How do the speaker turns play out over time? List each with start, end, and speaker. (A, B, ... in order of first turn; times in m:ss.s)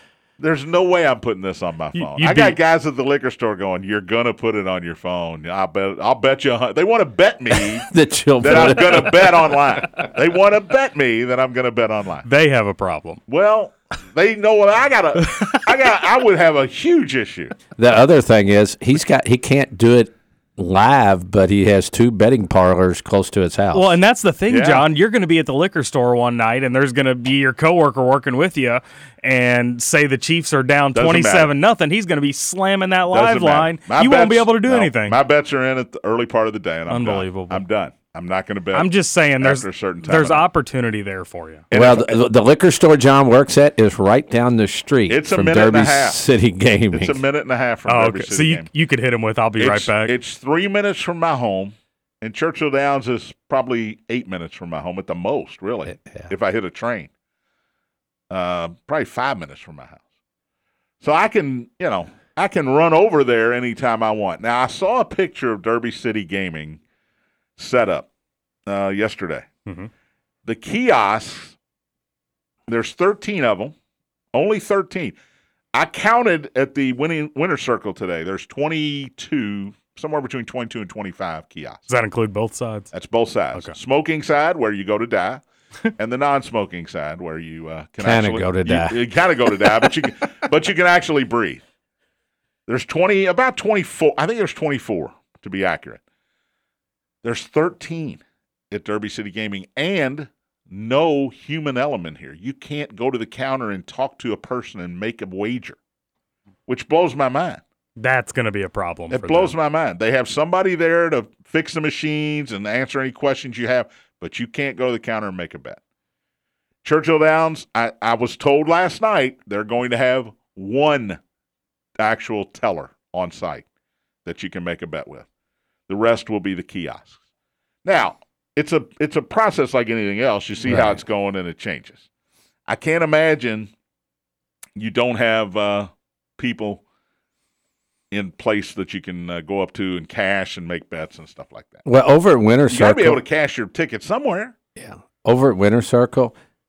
0:00.4-0:12.3 A
0:02.0-0:02.6 B
0:07.9-0:09.3 C
0:08.5-0:08.9 B
0:12.2-0:13.2 B
0:13.3-0:17.6 A
0:17.8-0:24.0 C
0:23.7-0:35.2 B
0:24.5-0:24.9 A
0:30.9-0:31.5 A
0:33.1-0:38.9 A
0:36.9-0:37.6 B
0:38.7-0:41.6 B
0:39.4-0:40.4 A
0:41.7-0:42.2 A
0:41.7-0:47.2 C
0:45.1-0:46.2 A
0:46.9-0:48.7 A
0:47.9-0:50.2 B
0:49.6-0:57.1 A
0:55.9-0:56.3 C
0:58.3-1:00.0 A
1:01.0-1:06.8 A
1:07.6-1:08.1 A
1:08.7-1:09.5 A
1:10.4-1:11.6 A
1:12.7-1:13.8 A
1:14.3-1:15.2 A
1:15.7-1:21.8 A
1:21.9-1:22.9 B
1:22.9-1:25.4 A
1:26.0-1:31.6 A
1:28.0-1:29.0 C
1:32.7-1:36.0 A
1:37.2-1:45.8 A
1:46.7-1:47.6 A
1:48.0-1:49.5 B
1:49.1-1:55.8 A
1:56.8-2:01.2 A
2:02.0-2:03.7 A
2:04.2-2:05.3 A
2:05.9-2:07.2 A
2:07.8-2:12.0 A
2:10.7-2:11.0 C
2:12.7-2:13.7 A
2:14.8-2:16.8 A
2:18.1-2:21.8 A
2:21.9-2:23.2 C
2:22.7-2:24.5 A
2:24.8-2:26.4 C